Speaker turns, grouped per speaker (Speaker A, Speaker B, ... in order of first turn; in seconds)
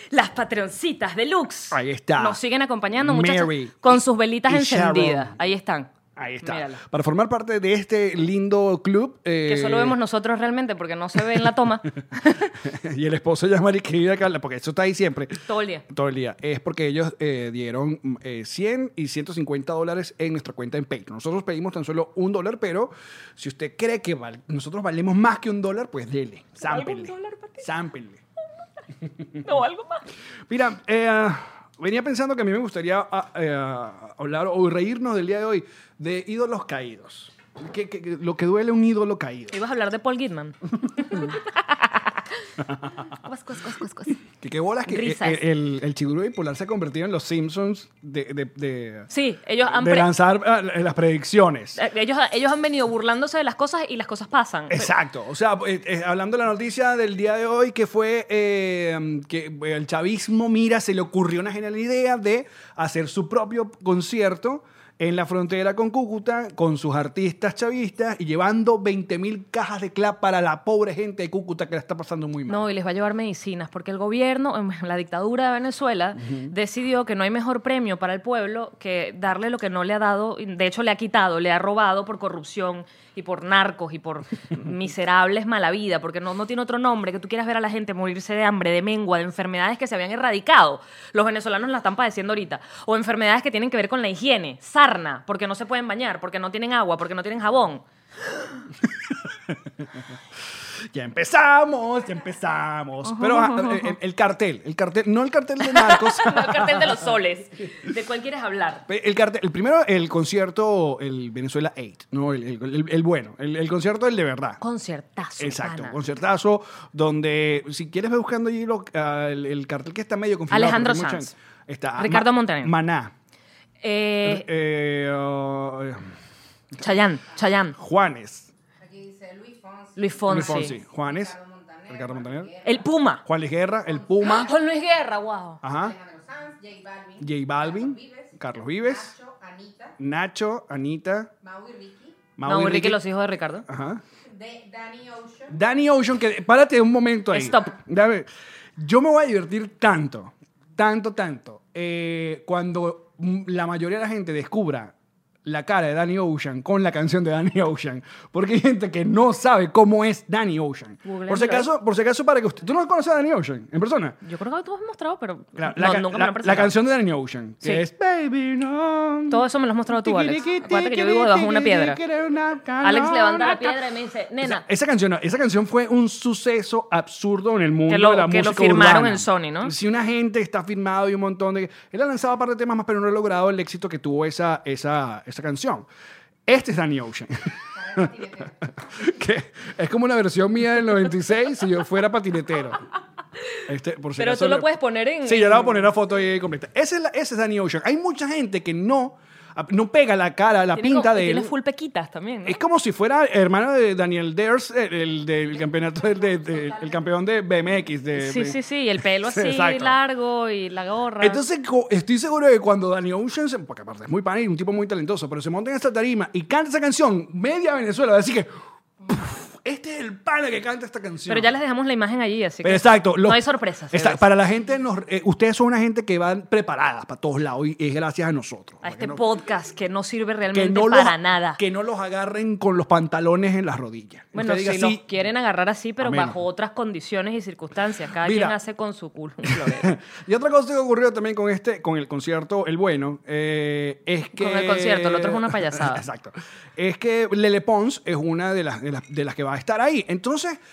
Speaker A: 0.1-5.9, 6.4-6.8, 9.5-12.5, 15.5-15.8, 26.6-27.7, 29.4-30.1, 39.5-42.1, 43.1-44.2, 44.9-45.4, 49.1-50.1, 51.8-54.9, 72.5-97.8, 103.1-103.9, 105.7-108.9, 114.6-116.0, 120.5-121.3, 122.0-122.7, 123.8-124.5, 126.8-127.8, 130.0-130.8, 132.6-133.2, 134.2-135.6, 142.4-143.7, 147.3-147.7, 161.0-161.7, 164.2-166.8, 169.3-172.0, 172.8-174.7, 177.9-179.7, 194.2-195.9, 200.7-202.6, 208.2-211.4, 221.3-224.2, 228.8-231.6, 234.3-239.9, 244.3-246.1
Speaker B: 1.7-2.4, 3.0-5.3, 6.2-10.0, 12.6-28.2, 30.5-39.6, 44.4-49.1, 49.7-51.8, 54.7-72.7, 76.2-76.5, 99.3-99.9, 100.8-107.0, 108.9-114.6, 115.4-123.1, 124.2-126.1, 127.8-128.5, 130.3-131.3, 131.9-132.5, 133.2-134.5, 135.6-135.9, 137.2-139.1, 140.0-141.3, 142.4-143.0, 143.7-144.0, 145.5-154.9, 155.4-164.2, 165.6-173.8, 174.4-185.9, 186.5-188.1, 188.8-192.9, 193.7-194.7, 195.2-201.5, 202.4-210.0, 211.2-218.5, 219.1-221.6, 222.6-229.2, 230.5-235.0, 236.0-236.4, 238.2-238.6, 239.5-250.6
Speaker C: 128.8-132.9, 133.8-134.5, 135.7-139.9, 141.4-142.2, 144.2-145.6, 187.7-188.6